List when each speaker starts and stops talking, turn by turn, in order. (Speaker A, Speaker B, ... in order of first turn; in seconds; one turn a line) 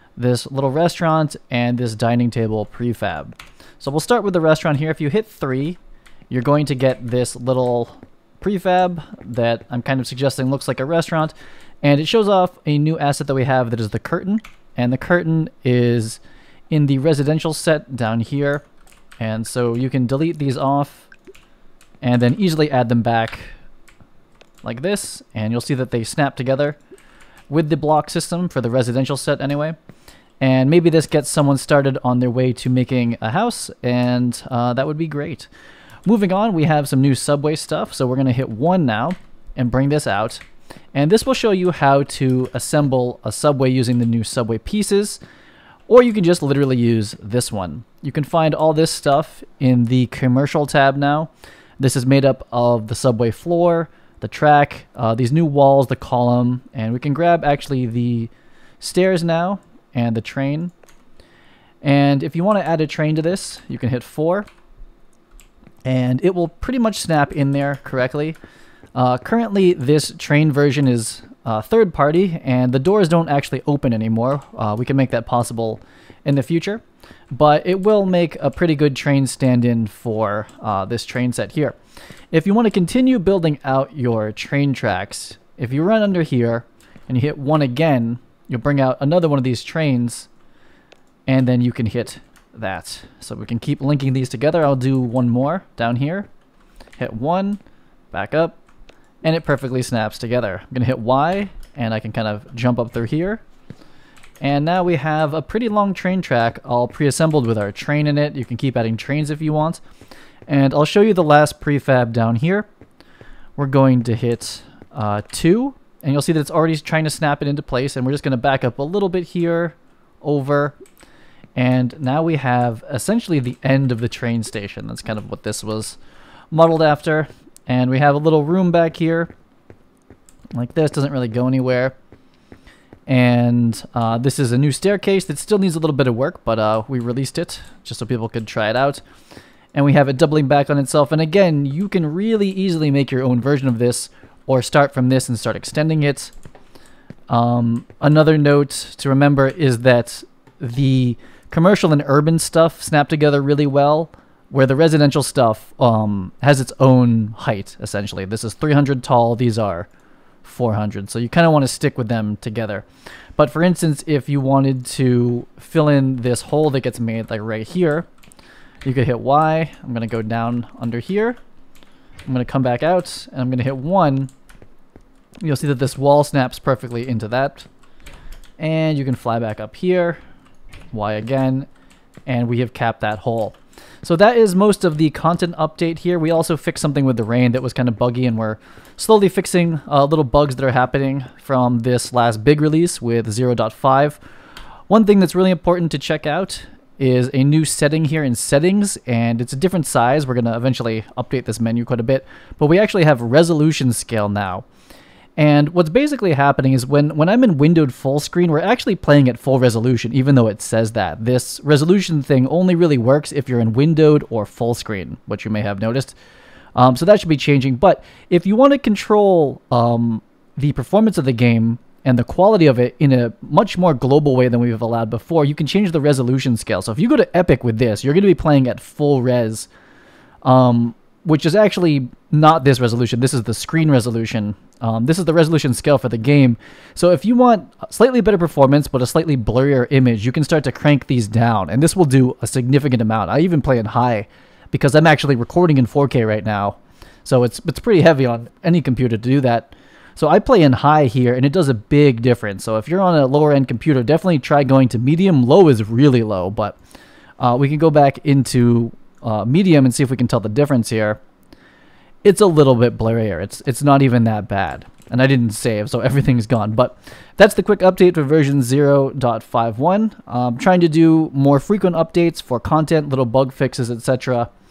Speaker A: 0.2-5.8
Speaker A: 6.3-18.6
Speaker A: 19.2-21.1
Speaker A: 22.0-23.5
Speaker A: 24.6-26.8
Speaker A: 27.5-29.8
Speaker A: 30.4-35.5
Speaker A: 36.0-45.2
Speaker A: 45.9-60.7
Speaker A: 61.8-64.5
Speaker A: 65.8-68.4
Speaker A: 68.9-81.8
Speaker A: 82.3-90.3
Speaker A: 91.3-96.3
Speaker A: 97.0-97.6
Speaker A: 98.1-98.6
Speaker A: 99.2-103.4
Speaker A: 104.4-109.8
Speaker A: 110.5-112.7
Speaker A: 113.6-120.8
Speaker A: 121.5-126.0
Speaker A: 126.5-129.3
Speaker A: 130.5-131.9
Speaker A: 133.1-139.0
Speaker A: 139.7-146.3
Speaker A: 147.3-159.9
Speaker A: 160.4-162.8
Speaker A: 163.4-168.1
Speaker A: 168.8-171.4
Speaker A: 172.3-174.3
Speaker A: 175.4-177.7
Speaker A: 178.6-180.2
Speaker A: 180.9-181.7
Speaker A: 182.3-194.2
Speaker A: 194.9-204.6
Speaker A: 205.4-216.2
Speaker A: 216.8-229.7
Speaker A: 230.4-256.8
Speaker A: 257.4-261.2
Speaker A: 262.2-274.5